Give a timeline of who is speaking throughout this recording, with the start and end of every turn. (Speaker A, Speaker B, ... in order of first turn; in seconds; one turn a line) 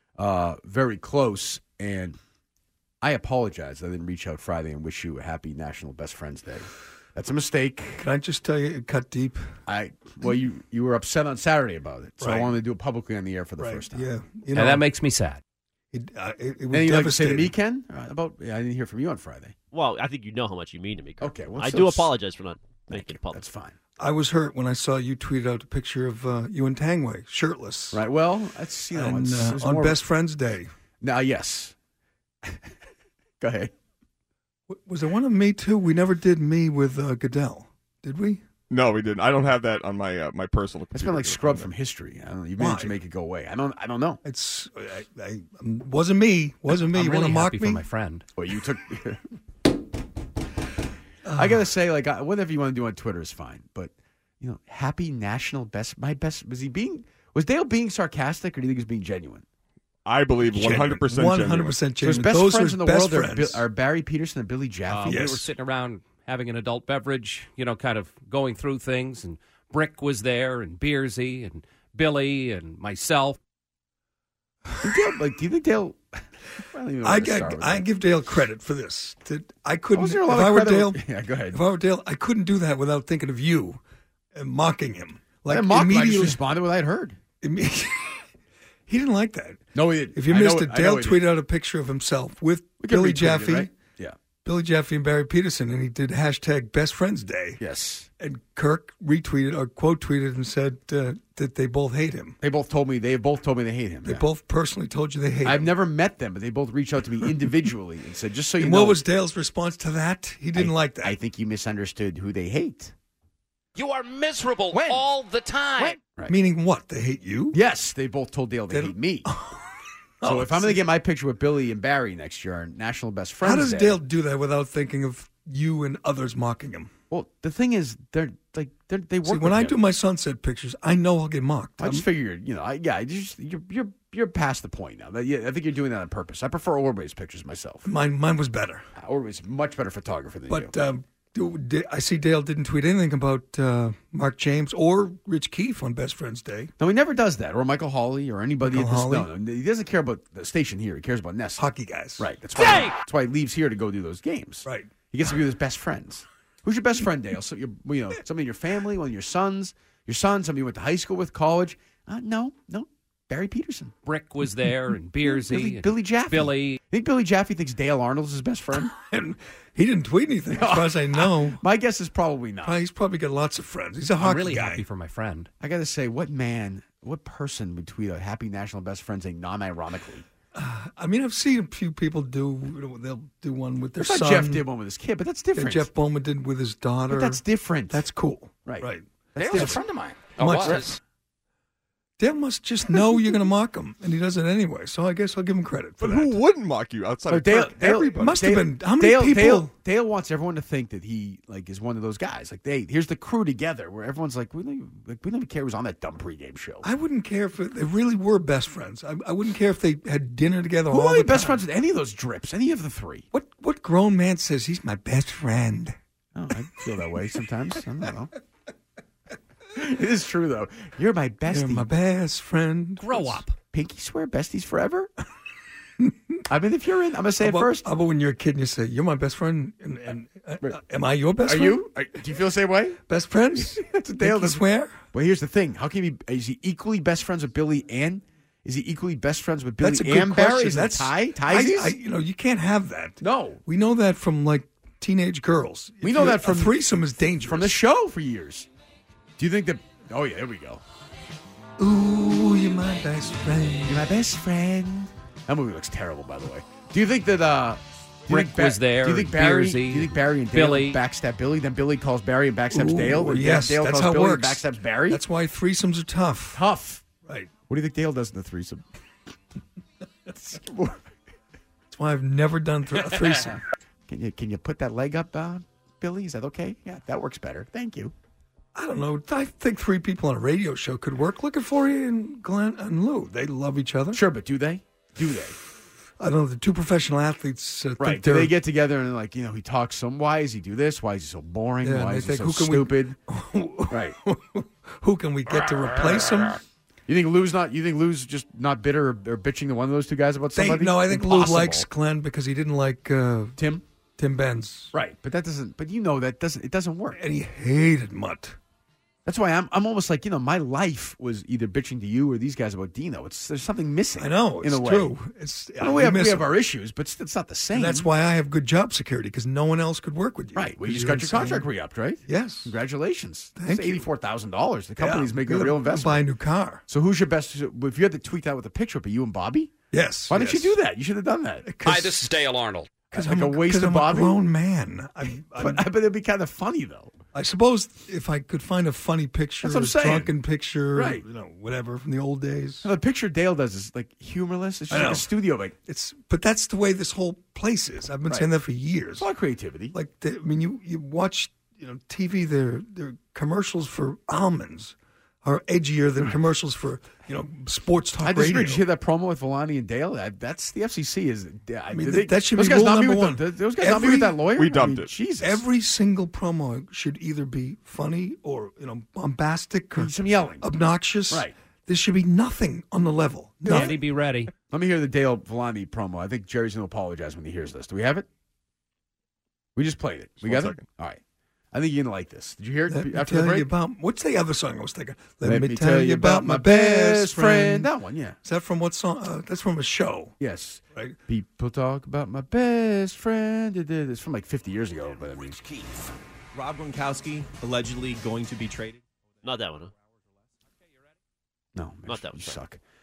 Speaker A: 0.2-2.2
Speaker A: 3.0-8.1
Speaker B: 8.0-9.5
Speaker A: 9.7-14.1
Speaker B: 12.2-12.5
Speaker B: 13.6-14.8
Speaker C: 14.5-15.4
Speaker B: 15.9-17.5
Speaker A: 16.7-19.5
Speaker D: 19.7-23.4
Speaker A: 21.2-22.1
Speaker A: 22.9-23.8
Speaker B: 24.0-28.0
Speaker A: 27.9-30.0
Speaker B: 28.9-30.7
Speaker A: 31.0-31.8
Speaker A: 33.4-33.7
Speaker B: 34.7-38.4
Speaker E: 38.7-41.7
Speaker A: 40.9-44.2
Speaker B: 42.6-43.0
Speaker B: 44.2-47.8
Speaker C: 46.7-48.3
Speaker A: 48.4-49.2
Speaker B: 51.3-51.6
Speaker A: 51.4-59.5
Speaker E: 60.0-61.8
Speaker B: 60.5-63.6
Speaker A: 62.0-65.3
Speaker C: 64.9-73.4
Speaker B: 65.1-65.5
Speaker A: 74.8-76.0
Speaker A: 76.6-77.8
Speaker B: 77.0-81.0
Speaker A: 79.9-81.6
Speaker B: 81.5-83.8
Speaker B: 84.3-86.4
Speaker A: 85.5-87.2
Speaker B: 87.4-88.2
Speaker B: 88.9-93.7
Speaker A: 89.8-91.2
Speaker A: 92.8-94.2
Speaker B: 94.5-97.6
Speaker A: 97.6-98.1
Speaker B: 98.2-102.4
Speaker A: 102.4-104.2
Speaker B: 104.0-105.7
Speaker A: 105.4-109.0
Speaker B: 108.6-111.2
Speaker A: 110.5-112.9
Speaker F: 113.8-116.0
Speaker A: 116.0-116.3
Speaker B: 116.3-117.6
Speaker A: 117.5-119.3
Speaker B: 118.7-119.7
Speaker B: 120.2-120.8
Speaker A: 120.2-124.0
Speaker B: 123.4-126.9
Speaker A: 127.1-129.8
Speaker B: 129.2-132.1
Speaker A: 131.8-137.9
Speaker B: 137.8-138.8
Speaker A: 139.0-140.7
Speaker B: 140.5-146.7
Speaker A: 146.8-151.6
Speaker B: 148.6-149.3
Speaker B: 151.6-152.2
Speaker A: 152.2-163.9
Speaker C: 152.6-152.9
Speaker B: 154.7-154.9
Speaker C: 164.1-166.8
Speaker A: 165.3-168.9
Speaker B: 169.0-171.6
Speaker A: 170.5-172.8
Speaker B: 172.6-174.8
Speaker C: 174.2-175.5
Speaker A: 175.6-180.3
Speaker B: 180.6-184.6
Speaker A: 184.0-185.9
Speaker B: 185.6-189.8
Speaker A: 187.1-188.0
Speaker A: 188.7-189.8
Speaker F: 189.4-191.0
Speaker B: 190.4-191.0
Speaker B: 192.2-196.4
Speaker E: 196.0-198.3
Speaker A: 197.3-206.8
Speaker B: 198.1-199.7
Speaker B: 206.8-211.6
Speaker A: 210.9-213.3
Speaker B: 213.3-216.0
Speaker A: 216.3-218.3
Speaker A: 219.8-221.8
Speaker B: 221.5-223.4
Speaker C: 223.0-223.5
Speaker A: 223.7-225.1
Speaker A: 226.5-227.9
Speaker B: 227.4-231.9
Speaker A: 231.4-233.0
Speaker B: 233.1-235.0
Speaker A: 233.6-242.0
Speaker B: 239.8-247.8
Speaker A: 243.2-243.6
Speaker A: 246.0-246.8
Speaker A: 247.4-248.7
Speaker A: 249.4-250.8
Speaker B: 251.8-254.0
Speaker A: 253.9-265.2
Speaker C: 258.3-261.0
Speaker B: 262.7-266.6
Speaker A: 266.6-267.0
Speaker A: 267.7-268.8
Speaker A: 270.6-270.9
Speaker B: 271.9-273.6
Speaker A: 273.3-273.6
Speaker A: 274.1-278.1
Speaker B: 278.8-284.2
Speaker A: 284.1-285.6
Speaker B: 286.2-288.5
Speaker A: 288.0-293.2
Speaker B: 291.8-296.6
Speaker A: 293.9-294.2
Speaker A: 297.1-301.9
Speaker B: 300.6-303.6
Speaker A: 303.6-303.8
Speaker B: 304.2-304.9
Speaker A: 304.9-307.2
Speaker B: 307.1-308.6
Speaker A: 309.2-315.1
Speaker B: 314.2-316.5
Speaker A: 315.8-318.1
Speaker B: 317.7-321.7
Speaker A: 320.6-326.2
Speaker B: 322.3-322.7
Speaker B: 323.6-324.1
Speaker B: 325.0-326.8
Speaker A: 326.9-329.7
Speaker B: 329.9-330.8
Speaker A: 330.3-331.7
Speaker B: 331.6-332.4
Speaker F: 331.8-333.0
Speaker A: 333.1-334.4
Speaker B: 333.1-335.9
Speaker A: 335.6-337.1
Speaker B: 337.3-342.9
Speaker A: 339.6-340.3
Speaker A: 340.9-341.2
Speaker A: 342.8-345.8
Speaker B: 344.9-345.3
Speaker B: 345.9-349.2
Speaker A: 349.2-349.9
Speaker B: 349.9-358.8
Speaker A: 358.2-365.6
Speaker B: 361.9-364.9
Speaker E: 364.6-365.1
Speaker B: 365.4-374.0
Speaker A: 370.0-370.6
Speaker A: 373.6-374.0
Speaker C: 373.7-374.5
Speaker A: 374.7-378.3
Speaker A: 379.8-381.2
Speaker E: 380.4-380.8
Speaker A: 381.7-383.7
Speaker B: 382.9-387.9
Speaker A: 385.4-388.4
Speaker B: 388.4-390.3
Speaker A: 390.4-395.6
Speaker F: 395.6-395.9
Speaker G: 396.5-399.0
Speaker D: 399.4-399.9
Speaker A: 401.8-402.8
Speaker D: 402.1-402.6